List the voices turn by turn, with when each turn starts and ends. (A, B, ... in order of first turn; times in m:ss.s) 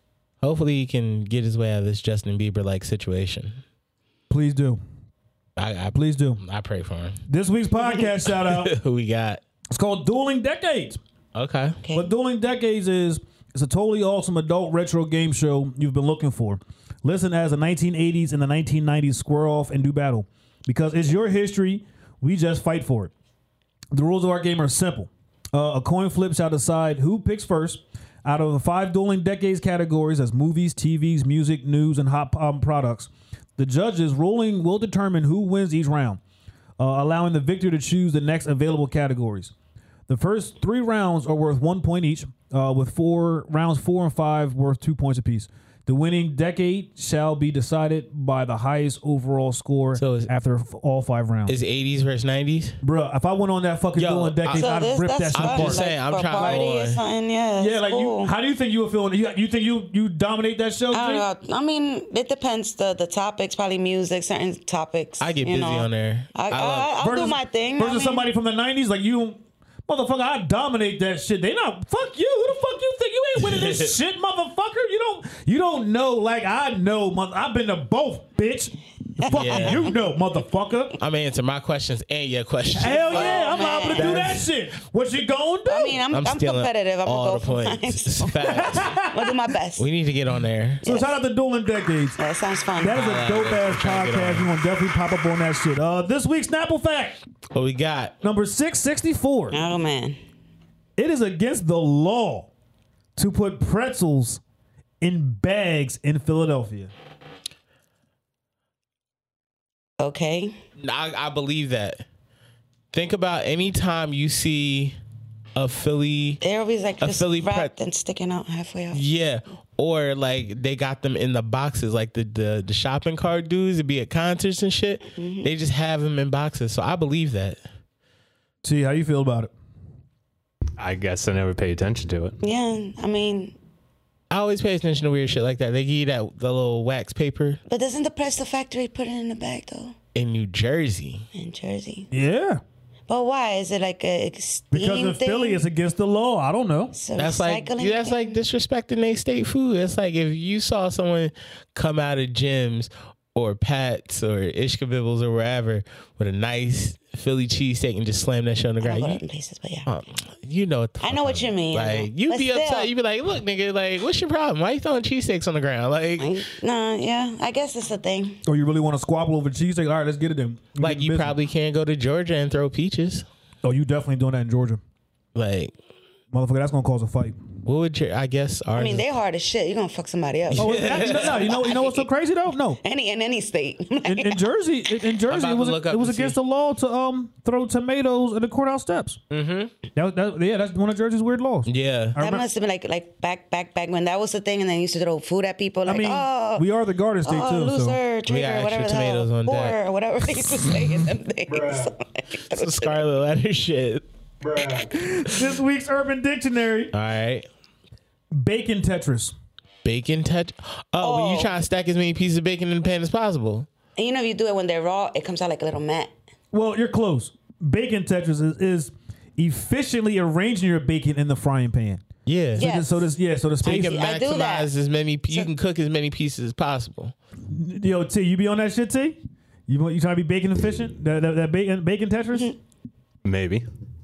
0:00.4-0:03.6 A
0:04.3-0:04.8 B
0:05.6-0:07.2 A
0:05.9-0:06.4 B
0:07.3-0:08.8 B
0:08.3-0:09.4 A
0:09.7-0:11.0 B
0:11.4-0:11.8 A
0:11.8-0:12.1 C
0:11.9-0:23.1 B
0:23.9-0:36.2 B
0:36.8-0:39.5 B
0:40.1-0:51.6 B
0:50.0-0:50.3 A
0:51.5-0:52.8 A
0:52.8-0:55.8 B
0:54.0-0:54.7 A
0:54.6-0:58.3 C
0:55.3-0:57.0 A
0:56.4-0:56.7 B
0:57.6-1:01.2 B
1:00.9-1:08.3 C
1:05.2-1:07.0 A
1:07.0-1:21.0 B
1:13.4-1:14.0 A
1:19.2-1:19.8 C
1:19.3-1:19.9 A
1:21.0-1:24.4 A
1:22.8-1:26.0 B
1:23.1-1:24.3 C
1:25.7-1:29.9 C
1:26.1-1:28.9 A
1:28.5-1:29.4 B
1:29.8-1:30.8 A
1:30.8-1:31.2 C
1:30.8-1:32.2 B
1:32.2-1:33.1 C
1:32.8-1:37.2 B
1:32.9-1:34.5 A
1:37.5-1:38.2 A
1:38.2-1:39.6 B
1:39.5-1:40.2 C
1:41.0-1:42.5 B
1:43.2-1:44.4 B
1:45.0-1:46.9 B
1:50.0-1:50.6 C
1:50.8-1:52.0 A
1:52.9-1:55.0 A
1:55.6-1:56.4 A
1:56.4-1:59.1 C
1:57.0-1:57.7 A
1:58.9-2:07.6 A
2:05.2-2:05.5 C
2:08.6-2:09.5 B
2:10.8-2:12.4 D
2:12.4-2:13.6 C
2:14.3-2:17.6 A
2:17.7-2:20.0 C
2:20.2-2:21.3 A
2:21.3-2:22.1 C
2:22.1-2:22.6 B
2:23.1-2:25.6 C
2:24.7-2:26.9 B
2:26.9-2:28.4 C
2:27.2-2:39.2 A
2:38.8-2:39.9 C
2:39.9-2:46.4 A
2:41.0-2:42.9 C
2:46.2-2:48.4 C
2:48.5-2:51.4 B
2:50.8-2:53.2 A
2:53.6-2:54.8 B
2:55.4-2:55.7 A
2:56.3-2:57.4 B
2:57.6-2:59.0 A
2:58.8-3:02.0 C
3:00.5-3:01.5 A
3:00.6-3:02.8 B
3:02.8-3:04.4 C
3:04.0-3:09.2 B
3:05.3-3:06.4 A
3:09.3-3:09.7 A
3:10.0-3:12.4 B
3:11.7-3:12.2 A
3:12.2-3:16.6 C
3:15.8-3:18.0 B
3:17.2-3:23.0 C
3:18.3-3:19.8 A
3:22.5-3:24.0 A
3:24.9-3:26.9 B
3:26.9-3:27.5 A
3:28.3-3:29.3 B
3:29.8-3:33.7 A
3:31.0-3:31.5 C
3:34.0-3:36.1 C
3:36.5-3:44.0 B
3:42.3-3:42.7 A
3:42.6-3:43.1 C
3:43.6-3:44.7 C
3:43.6-3:47.1 A
3:47.5-3:52.5 B
3:53.2-3:53.7 D